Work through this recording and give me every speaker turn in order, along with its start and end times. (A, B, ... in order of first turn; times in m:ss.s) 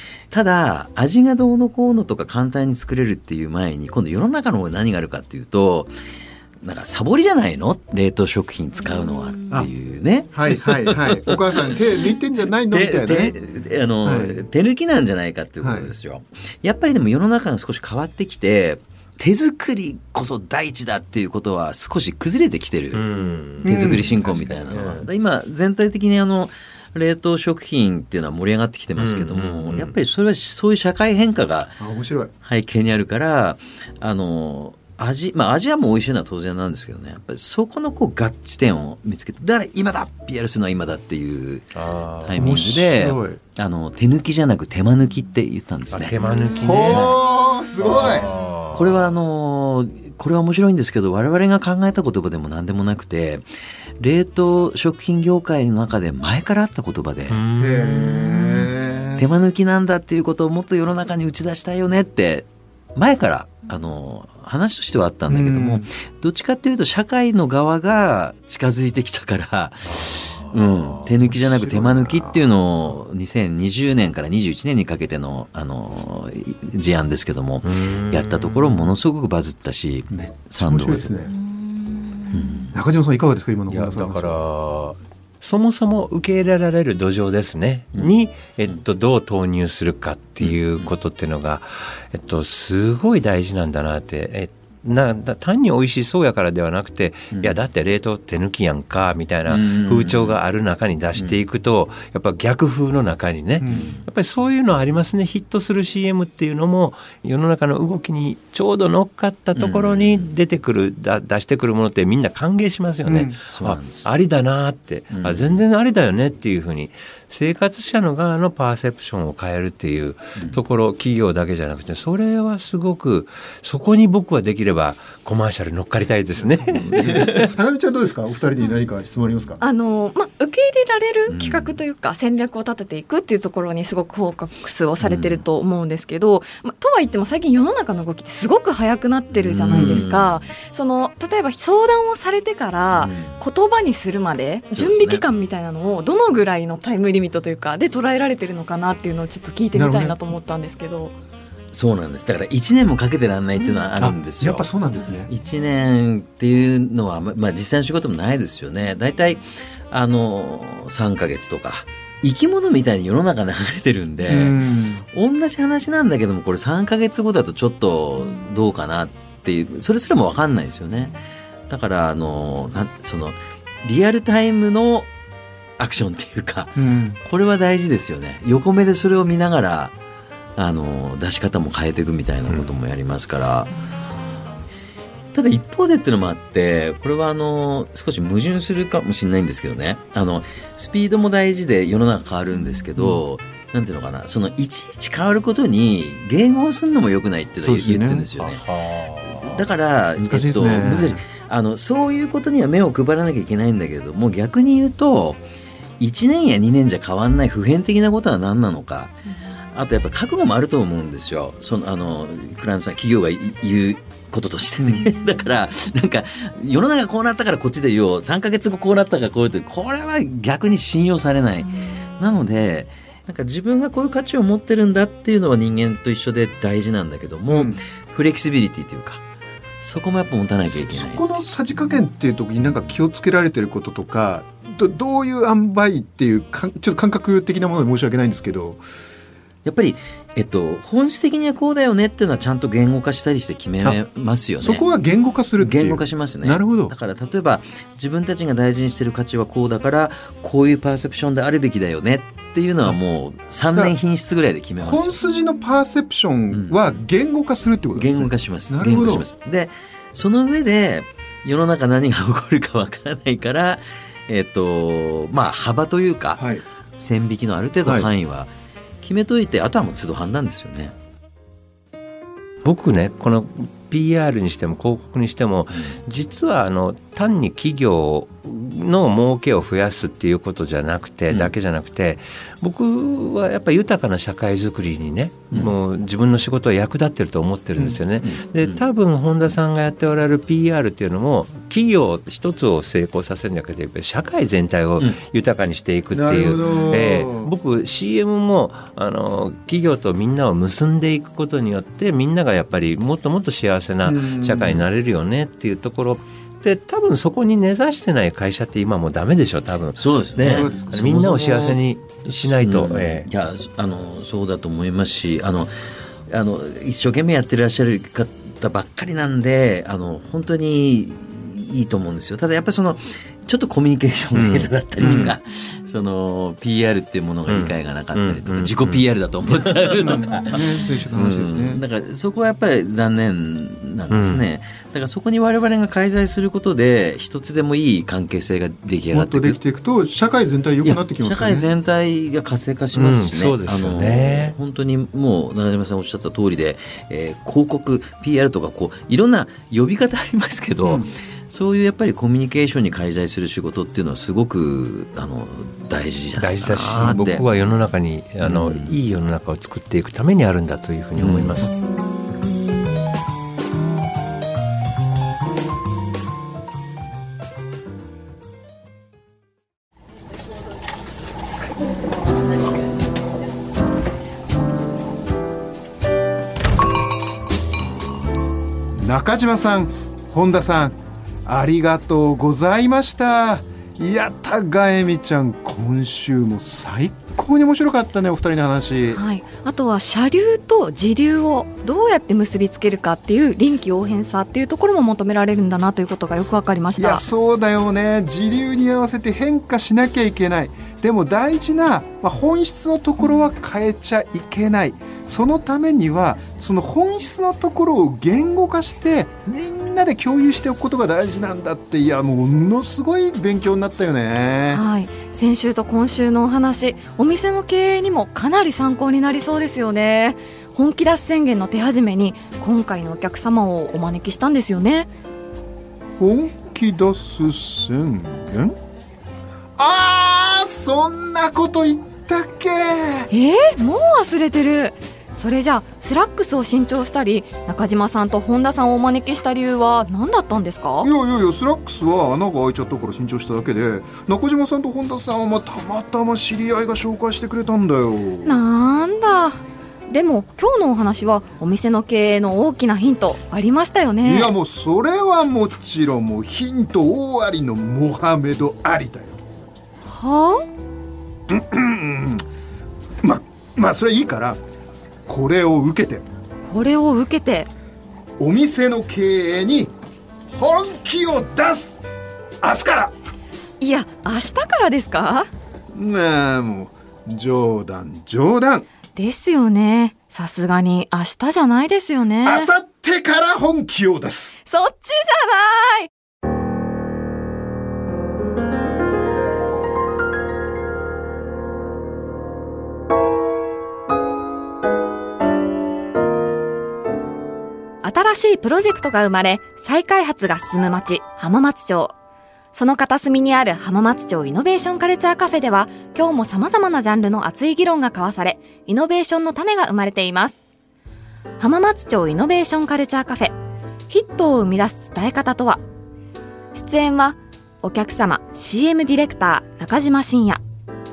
0:00.3-0:05.9 A
0:06.6-0:11.8 A
0:10.3-0:13.3 B
0:12.7-0:23.0 A
0:14.0-0:14.5 B
0:15.6-0:15.9 B
0:22.9-0:25.1 C
0:23.6-0:31.8 A
0:23.6-0:24.2 B
0:29.0-0:30.0 C
0:31.8-0:32.3 B
0:32.4-0:47.2 A
0:41.8-0:42.6 C
0:42.4-0:43.4 B
0:45.9-0:47.2 C
0:46.6-0:48.3 B
0:47.8-0:49.2 C
0:48.7-0:53.4 A
0:54.0-0:57.4 A
0:57.3-0:58.7 C
0:57.6-0:59.3 B
0:59.2-1:21.3 A
1:05.3-1:05.9 B
1:10.5-1:11.2 C
1:11.3-1:12.4 B
1:17.6-1:18.9 C
1:20.1-1:21.3 B
1:22.3-1:22.7 A
1:22.7-1:24.4 B
1:23.7-2:07.5 C
1:30.4-1:30.9 A
1:37.3-1:37.6 A
1:39.5-1:40.4 A
1:43.6-1:43.9 B
1:43.7-1:44.0 A
1:49.6-1:50.4 A
1:53.0-1:53.4 B
1:53.5-1:54.1 A
1:55.1-1:55.6 A
2:06.9-2:09.6 B
2:09.6-2:31.2 D
2:11.3-2:11.8 A
2:15.0-2:15.4 A
2:19.3-2:20.5 A
2:19.7-2:20.1 B
2:23.0-2:23.4 A
2:24.7-2:25.2 A
2:29.7-2:30.2 B
2:31.7-2:55.1 A
2:34.0-2:35.3 B
2:44.2-2:45.0 B
2:55.8-3:00.0 A
2:56.8-2:57.2 B
3:00.6-3:03.7 A
3:05.3-3:18.6 A
3:17.6-3:18.3 B
3:18.4-3:19.6 C
3:19.4-3:25.4 A
3:20.2-3:21.2 B
3:26.0-3:29.2 A
3:29.7-3:49.2 A
3:34.8-3:35.1 B
3:47.5-3:47.8 B
3:49.8-3:51.2 A
3:50.7-3:58.8 B
3:59.6-4:04.8 A
4:04.6-4:06.9 B
4:05.6-4:15.2 A
4:14.8-4:19.3 B
4:16.5-4:16.8 A
4:18.0-4:26.5 A
4:26.4-4:26.6 B
4:27.0-4:31.0 A
4:27.8-4:28.1 B
4:32.6-5:13.3 C
4:48.2-4:48.8 A
4:56.1-4:57.5 B
5:04.0-5:04.8 B
5:10.0-5:15.7 A
5:10.4-5:11.3 B
5:16.3-5:39.6 A
5:24.3-5:25.4 C
5:25.0-5:25.3 B
5:27.5-5:29.1 C
5:30.1-5:31.8 B
5:34.1-5:34.4 C
5:39.1-5:41.7 B
5:40.8-5:57.4 A
5:42.9-5:44.6 C
5:56.4-6:01.7 C
5:58.4-5:59.0 A
6:01.2-6:01.6 A
6:19.0-6:29.2 B
6:29.1-6:37.2 D
6:37.0-6:54.8 B
6:54.7-7:05.1 D
7:06.2-7:08.8 B
7:09.8-7:13.3 B
7:13.3-7:21.1 D
7:21.0-7:28.6 B
7:28.4-7:34.5 D
7:34.2-7:39.4 B
7:40.0-7:40.7 D
7:41.5-7:42.4 B
7:43.2-7:44.6 B
7:45.3-7:46.2 B
7:46.6-7:47.7 D
7:48.4-7:49.9 B
7:50.5-7:52.0 B
7:52.6-7:53.1 B
7:53.8-7:55.5 D
7:55.9-7:58.9 B
7:59.2-8:02.7 D
8:02.4-8:04.6 B
8:04.7-8:06.1 D
8:18.0-8:22.2 D
8:22.7-8:30.6 D
8:31.6-8:33.6 D
8:34.1-8:35.8 D
8:36.7-8:40.6 D